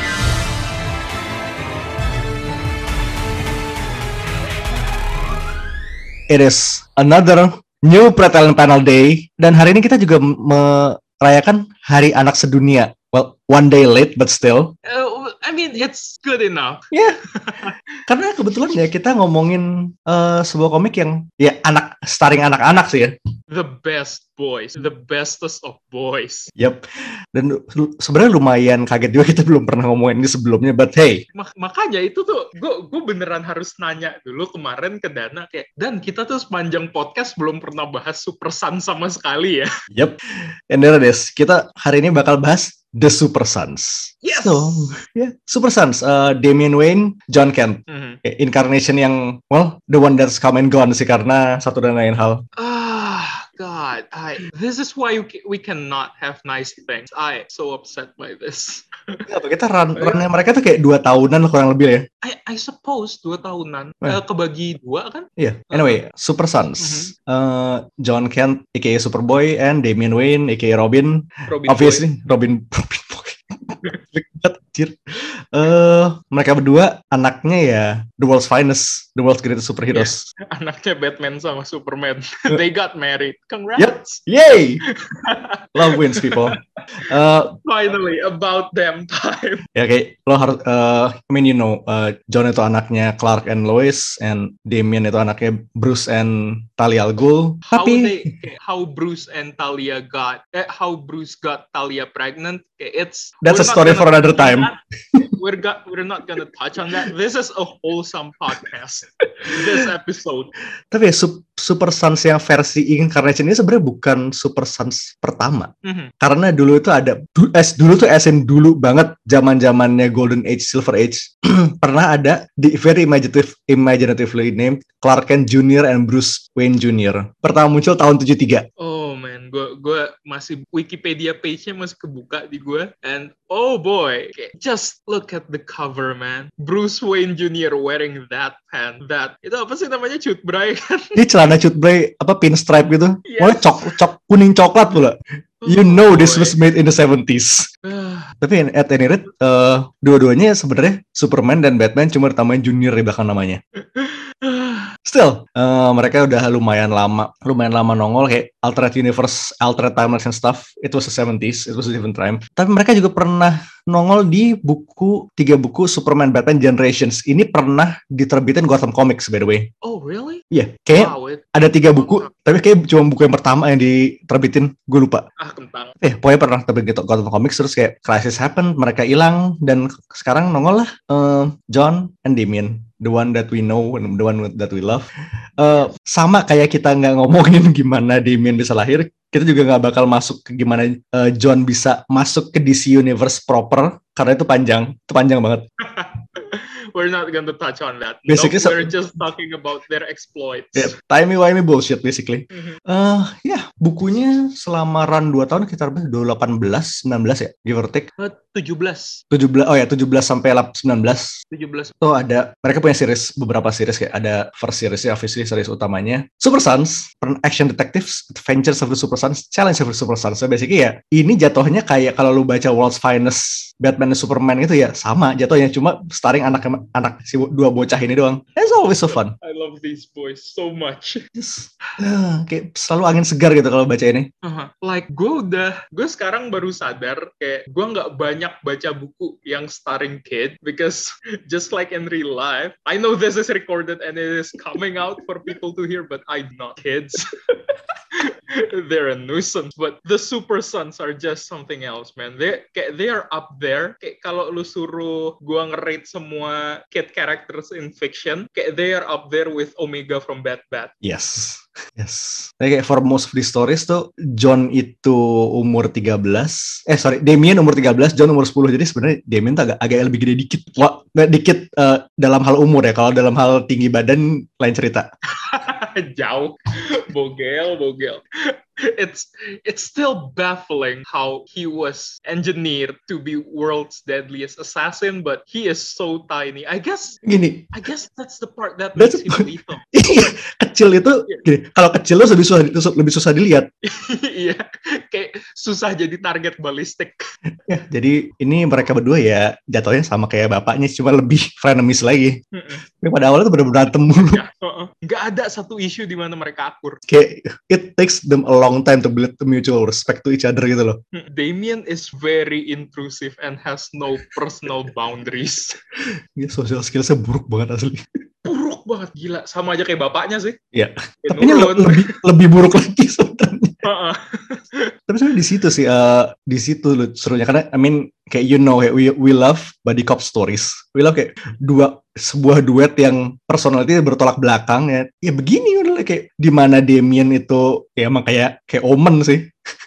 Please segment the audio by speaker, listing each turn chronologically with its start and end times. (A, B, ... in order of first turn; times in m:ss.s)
0:06.3-0:14.7 A
0:14.8-0:16.8 B
0:16.9-0:17.2 A
0:17.4-0:17.8 B
0:18.1-0:23.1 A
0:23.5-0:26.5 B
0:26.6-0:31.2 A
0:31.3-0:39.7 B
0:39.9-0:52.4 A
0:44.2-0:45.0 B
0:47.9-0:48.2 B
0:52.6-0:59.3 B
0:59.3-1:02.1 A
1:00.0-1:00.2 B
1:02.2-1:06.0 B
1:05.4-1:15.0 A
1:06.8-1:07.1 B
1:11.5-1:12.1 B
1:15.5-1:20.3 A
1:19.9-1:26.6 B
1:23.8-1:24.8 A
1:25.8-1:27.6 A
1:27.6-1:29.6 B
1:29.8-1:38.3 A
1:37.7-1:50.5 B
1:43.4-1:45.2 A
1:49.4-1:49.8 A
1:50.9-2:08.7 A
1:55.8-1:56.1 B
2:08.8-2:21.5 B
2:21.2-2:27.7 A
2:23.2-2:24.0 B
2:25.6-2:26.6 B
2:27.8-2:28.3 B
2:28.4-2:33.6 A
2:33.8-2:34.9 B
2:35.1-2:49.7 A
2:49.8-2:52.3 B
2:50.5-2:55.3 A
2:55.4-2:56.0 B
2:56.0-3:15.6 A
3:05.6-3:05.9 B
3:15.8-3:21.0 B
3:18.3-3:18.9 A
3:20.8-3:28.1 A
3:22.5-3:22.8 B
3:28.2-3:29.2 B
3:29.3-3:31.4 A
3:31.5-3:32.0 B
3:32.0-3:49.3 A
3:48.8-3:51.2 B
3:51.4-3:54.3 A
3:54.4-4:07.3 B
4:08.1-4:20.9 B
4:21.0-4:35.1 A
4:35.4-4:47.2 B
4:47.2-4:47.7 A
4:47.7-4:49.8 B
4:49.0-4:53.7 A
4:53.8-4:57.2 B
4:57.7-5:02.4 A
5:02.5-5:02.8 B
5:03.0-5:04.4 A
5:04.2-5:07.0 B
5:07.1-5:11.0 A
5:11.1-5:15.8 B
5:16.1-5:18.1 A
5:18.4-5:20.6 B
5:20.7-5:23.8 A
5:21.2-5:22.2 B
5:23.8-5:24.9 B
5:25.1-5:39.5 A